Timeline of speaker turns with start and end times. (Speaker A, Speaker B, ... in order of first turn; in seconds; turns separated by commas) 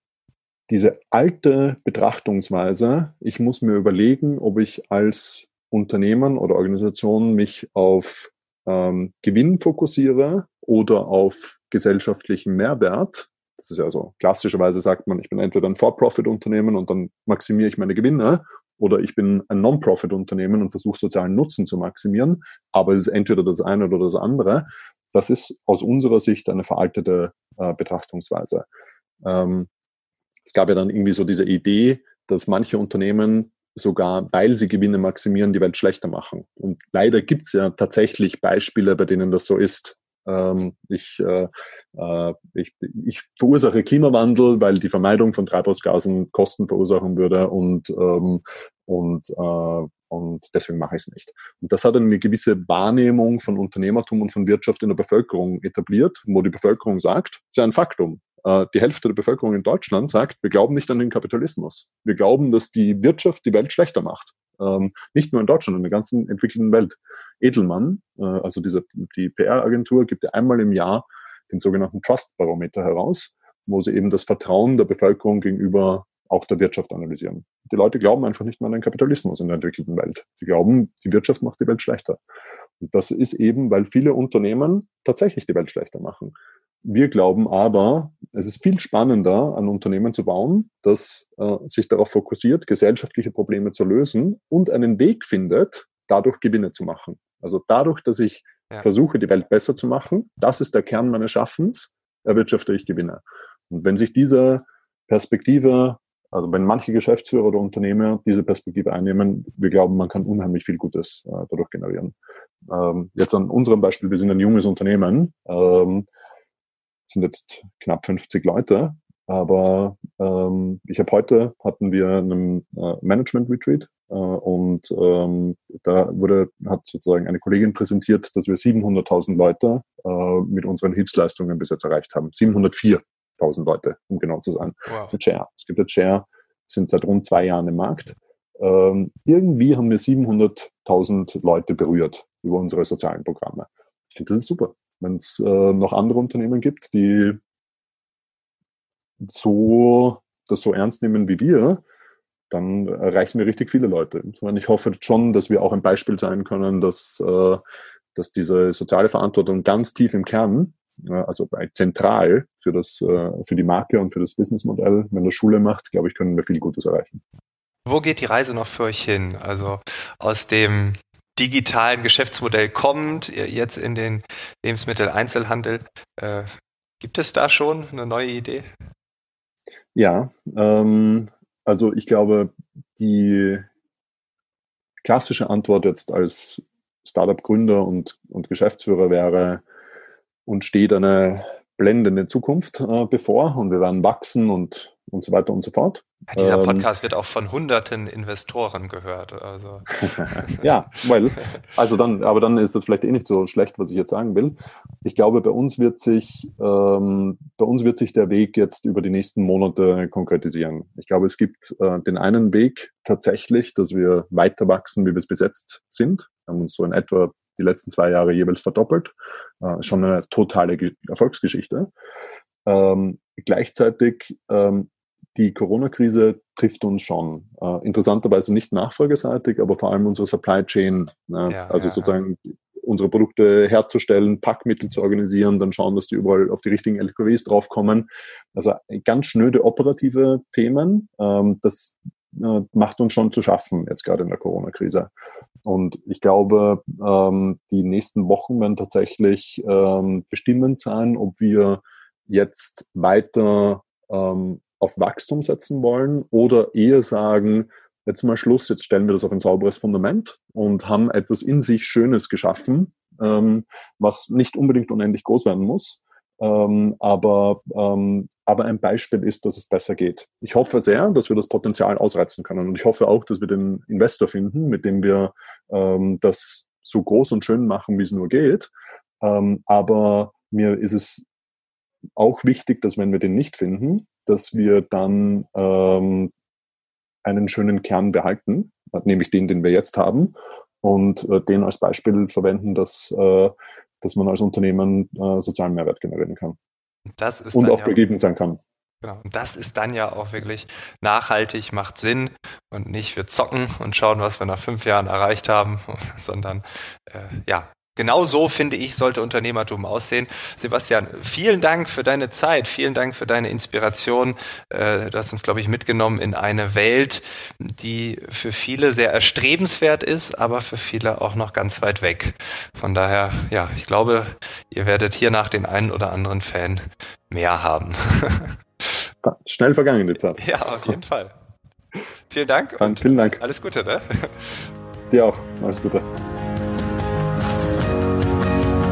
Speaker A: 0.7-28.7, Speaker A: 29.2-29.7, Speaker A: 30.5-82.2, Speaker A: 82.8-112.2, Speaker A: 112.7-116.1, Speaker A: 117.1-147.4, Speaker B: 134.9-135.1, Speaker A: 149.2-151.8, Speaker A: 152.5-157.6, Speaker A: 158.2-167.2, Speaker B: 167.9-176.5, Speaker B: 177.0-178.7, Speaker A: 179.9-183.7, Speaker A: 185.0-189.6, Speaker A: 190.5-196.9, Speaker B: 196.3-200.7, Speaker A: 200.4-221.9, Speaker A: 222.7-245.1, Speaker B: 231.5-232.1, Speaker A: 245.7-281.2, Speaker A: 282.2-286.3, Speaker A: 287.2-296.6, Speaker B: 297.1-298.0, Speaker A: 297.5-298.6, Speaker B: 299.0-328.6, Speaker A: 329.2-330.9, Speaker B: 330.4-331.3, Speaker B: 332.3-334.6, Speaker A: 332.8-333.4, Speaker A: 335.1-336.1